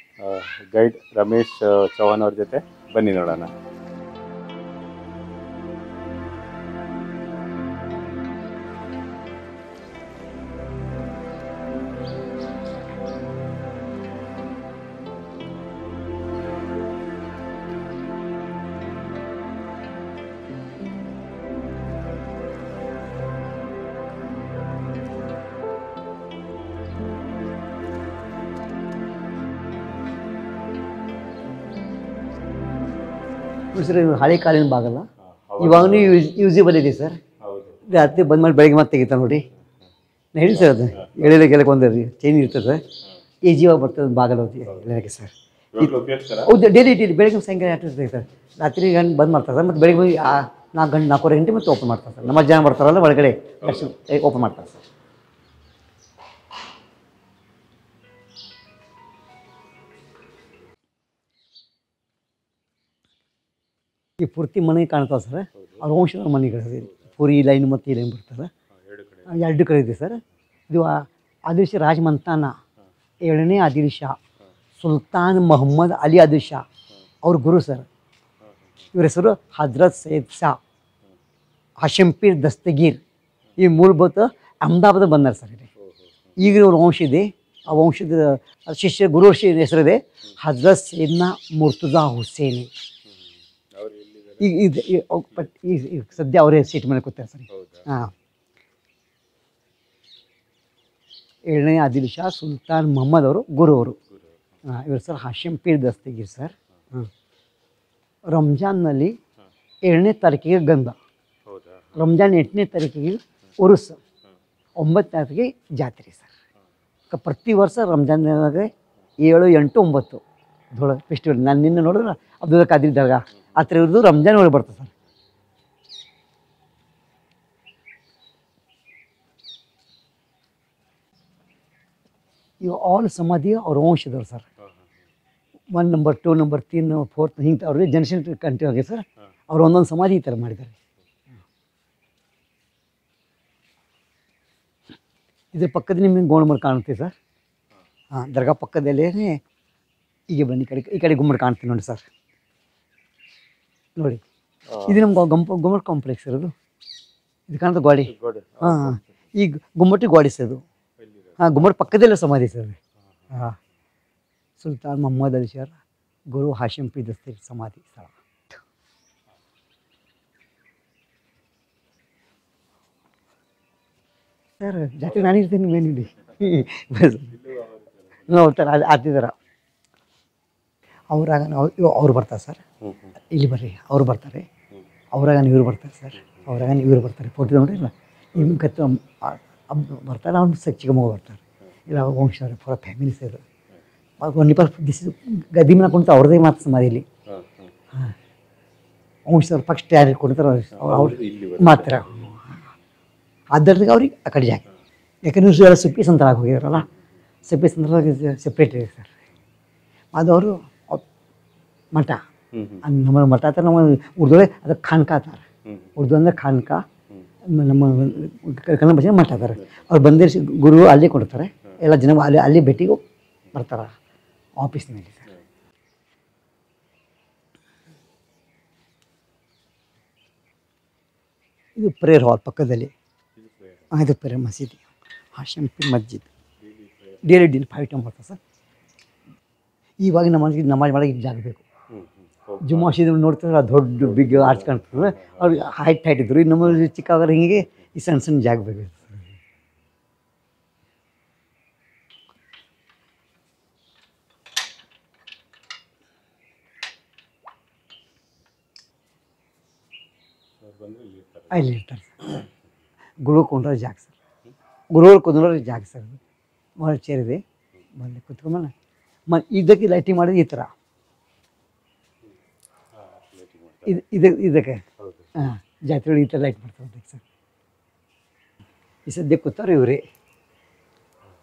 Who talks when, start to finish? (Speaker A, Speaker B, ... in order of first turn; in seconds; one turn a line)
Speaker A: 0.2-3.5
Speaker B: 33.7-35.1
Speaker A: 35.2-36.2
Speaker B: 35.6-37.2
Speaker A: 37.4-37.8
Speaker B: 37.9-39.4
Speaker B: 40.3-42.8
Speaker A: 40.5-41.3
Speaker B: 43.4-54.8
Speaker A: 45.7-46.5
Speaker B: 64.2-68.5
Speaker A: 65.6-65.8
Speaker A: 68.7-69.4
Speaker B: 69.3-72.5
Speaker B: 73.2-74.2
Speaker B: 74.8-76.6
Speaker B: 77.2-77.9
Speaker A: 78.4-78.7
Speaker B: 78.9-80.6
Speaker B: 81.8-83.0
Speaker B: 83.6-85.7
Speaker A: 85.8-86.3
Speaker B: 86.4-92.7
Speaker A: 93.7-94.5
Speaker B: 94.4-98.1
Speaker A: 97.5-97.9
Speaker B: 101.5-104.0
Speaker A: 104.1-104.4
Speaker B: 104.6-107.1
Speaker B: 108.3-109.1
Speaker B: 109.8-111.0
Speaker A: 111.5-112.0
Speaker B: 112.0-114.0
Speaker B: 114.8-116.3
Speaker B: 117.1-120.2
Speaker B: 120.7-124.9
Speaker B: 132.6-134.4
Speaker B: 135.7-140.8
Speaker B: 145.5-147.1
Speaker B: 148.1-149.4
Speaker B: 150.3-152.0
Speaker B: 154.0-154.2
Speaker A: 154.7-155.0
Speaker B: 154.8-156.5
Speaker B: 157.5-160.6
Speaker A: 158.0-159.1
Speaker A: 161.0-161.4
Speaker B: 161.4-162.8
Speaker B: 163.3-163.6
Speaker B: 164.6-165.8
Speaker B: 166.3-168.6
Speaker B: 174.6-177.3
Speaker A: 177.3-178.3
Speaker B: 178.3-179.3
Speaker B: 181.1-182.6
Speaker A: 182.8-183.1
Speaker B: 183.3-184.4
Speaker B: 185.1-193.4
Speaker B: 194.2-197.0
Speaker A: 197.3-197.7
Speaker B: 199.3-202.3
Speaker A: 200.8-202.4
Speaker B: 203.5-204.6
Speaker B: 205.2-206.9
Speaker B: 207.5-209.1
Speaker B: 210.1-211.0
Speaker B: 211.9-212.2
Speaker A: 212.5-212.8
Speaker B: 212.8-215.4
Speaker B: 216.0-216.8
Speaker B: 217.5-223.0
Speaker B: 223.5-223.9
Speaker B: 224.6-225.2
Speaker B: 231.8-232.9
Speaker A: 233.4-233.9
Speaker B: 233.9-236.3
Speaker A: 236.6-237.4
Speaker B: 237.2-238.4
Speaker B: 240.0-241.6
Speaker A: 241.9-243.0
Speaker B: 242.6-249.2
Speaker A: 244.0-245.6
Speaker A: 260.6-261.7
Speaker B: 261.5-262.4
Speaker B: 263.2-264.1
Speaker B: 264.9-266.2
Speaker B: 266.8-267.4
Speaker B: 267.9-268.7
Speaker B: 269.3-270.7
Speaker A: 272.9-274.0
Speaker B: 273.9-274.8
Speaker A: 275.0-275.3
Speaker B: 275.4-277.2
Speaker B: 279.1-280.0